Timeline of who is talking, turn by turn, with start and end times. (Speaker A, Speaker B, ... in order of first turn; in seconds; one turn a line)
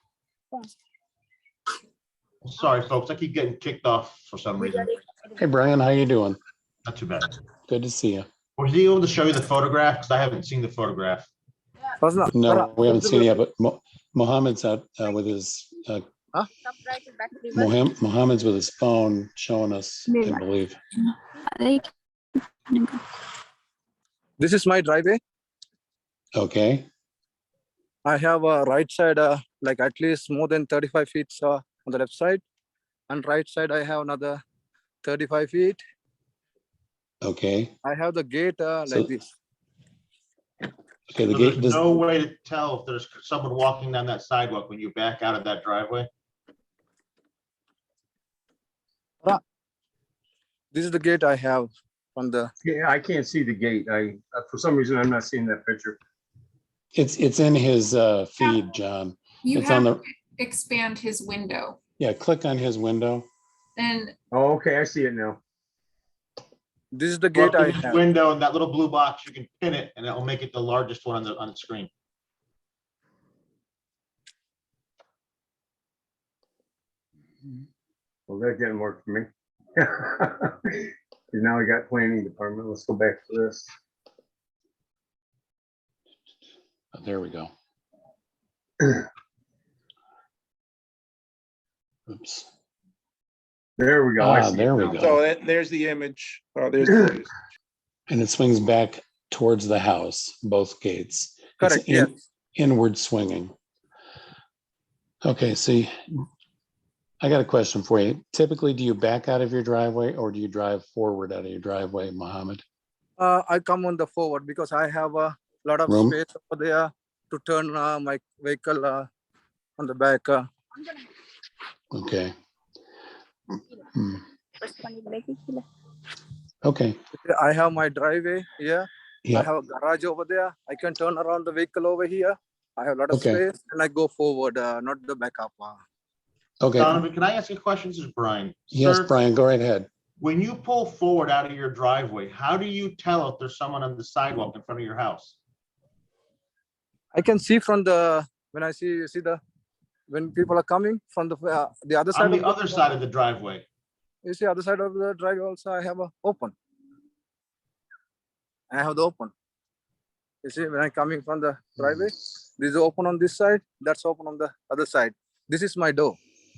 Speaker A: 2.4-5.0
Speaker B: 5.4-6.4
Speaker A: 6.9-7.3
Speaker B: 7.7-8.3
Speaker A: 8.6-11.3
Speaker C: 12.0-13.3
Speaker B: 12.3-16.0
Speaker D: 16.8-17.7
Speaker B: 17.5-20.8
Speaker D: 20.1-20.4
Speaker D: 21.1-21.9
Speaker D: 22.7-23.0
Speaker C: 24.4-25.2
Speaker B: 26.4-26.9
Speaker C: 28.1-32.4
Speaker C: 33.1-34.4
Speaker C: 35.0-35.8
Speaker B: 37.2-37.7
Speaker C: 37.8-39.3
Speaker B: 41.1-41.9
Speaker A: 41.3-46.1
Speaker C: 50.7-52.5
Speaker E: 52.6-56.0
Speaker B: 56.9-60.0
Speaker F: 58.4-58.6
Speaker F: 59.4-61.8
Speaker B: 62.0-63.3
Speaker F: 63.8-64.2
Speaker E: 64.3-65.4
Speaker C: 66.9-68.0
Speaker A: 67.3-71.9
Speaker E: 78.3-83.7
Speaker B: 86.9-87.5
Speaker B: 92.1-92.5
Speaker E: 93.8-95.0
Speaker B: 94.2-95.2
Speaker G: 94.9-97.3
Speaker B: 98.1-103.5
Speaker C: 101.6-102.2
Speaker B: 105.2-106.2
Speaker B: 107.2-112.6
Speaker C: 113.2-119.1
Speaker B: 115.9-116.2
Speaker C: 119.8-120.5
Speaker B: 121.9-122.3
Speaker B: 123.9-124.2
Speaker D: 124.6-125.7
Speaker B: 126.6-127.0
Speaker C: 127.2-135.8
Speaker B: 133.1-133.4
Speaker B: 136.6-137.0
Speaker A: 136.8-139.1
Speaker B: 138.7-139.9
Speaker A: 140.2-145.4
Speaker C: 147.1-149.4
Speaker C: 150.1-152.9
Speaker A: 152.1-153.7
Speaker C: 154.2-156.6
Speaker C: 158.7-159.3
Speaker C: 160.4-166.2